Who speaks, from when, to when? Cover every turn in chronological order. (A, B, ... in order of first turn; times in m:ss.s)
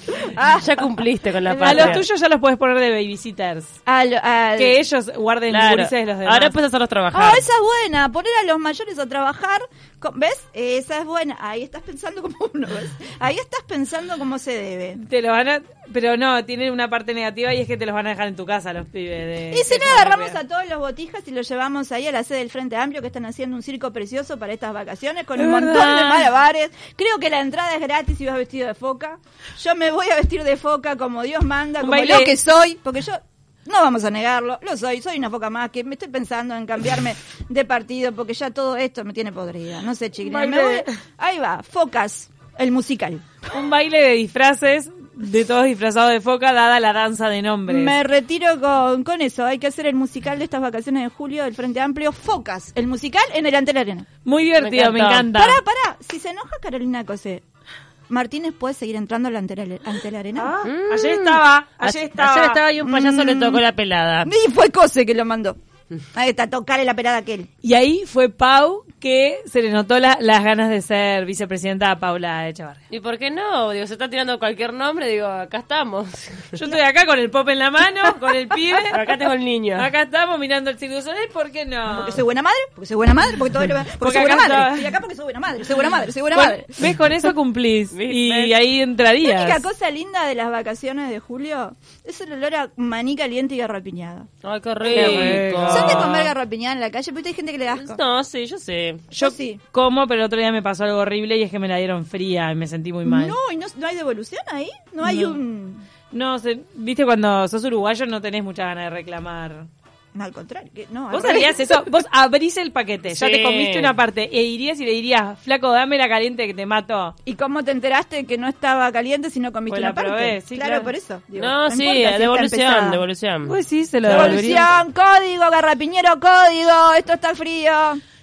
0:00.3-0:00.9 A
0:00.5-0:02.0 B
0:01.5-0:02.0 A
0:01.6-0:03.8 C
0:03.9-0:04.8 A
0:04.6-0:06.5 C
0:05.5-0:07.4 B
0:07.1-0:15.0 A
0:15.0-0:20.4 C
0:19.5-0:43.5 A
0:25.4-0:26.3 C
0:31.8-0:32.4 C
0:40.2-0:40.9 C
0:43.5-0:48.0 C
0:47.7-0:54.1 A
0:54.2-0:55.6 C
0:54.6-0:55.3 B
0:55.4-0:57.4 A
0:58.1-1:00.5 A
1:00.4-1:02.6 C
1:00.6-1:04.3 B
1:02.8-1:03.6 A
1:04.2-1:05.6 A
1:06.1-1:07.5 A
1:07.6-1:12.8 C
1:12.9-1:16.6 B
1:16.5-1:19.2 C
1:18.9-1:19.9 B
1:19.8-1:22.2 C
1:21.9-1:26.9 A
1:23.9-1:25.0 C
1:26.3-1:29.6 C
1:27.9-1:28.5 B
1:29.2-1:34.3 A
1:34.4-1:36.3 B
1:34.8-1:38.0 A
1:34.9-1:36.3 C
1:37.7-1:39.1 B
1:39.1-1:43.4 C
1:39.2-1:39.6 A
1:43.0-1:45.8 A
1:45.0-1:45.4 C
1:46.1-1:49.7 C
1:50.2-1:51.9 A
1:51.1-1:57.1 C
1:53.1-1:53.9 B
1:57.2-2:03.0 A
1:59.7-2:00.9 C
2:01.4-2:04.8 B
2:03.5-2:04.7 C
2:04.1-2:08.0 A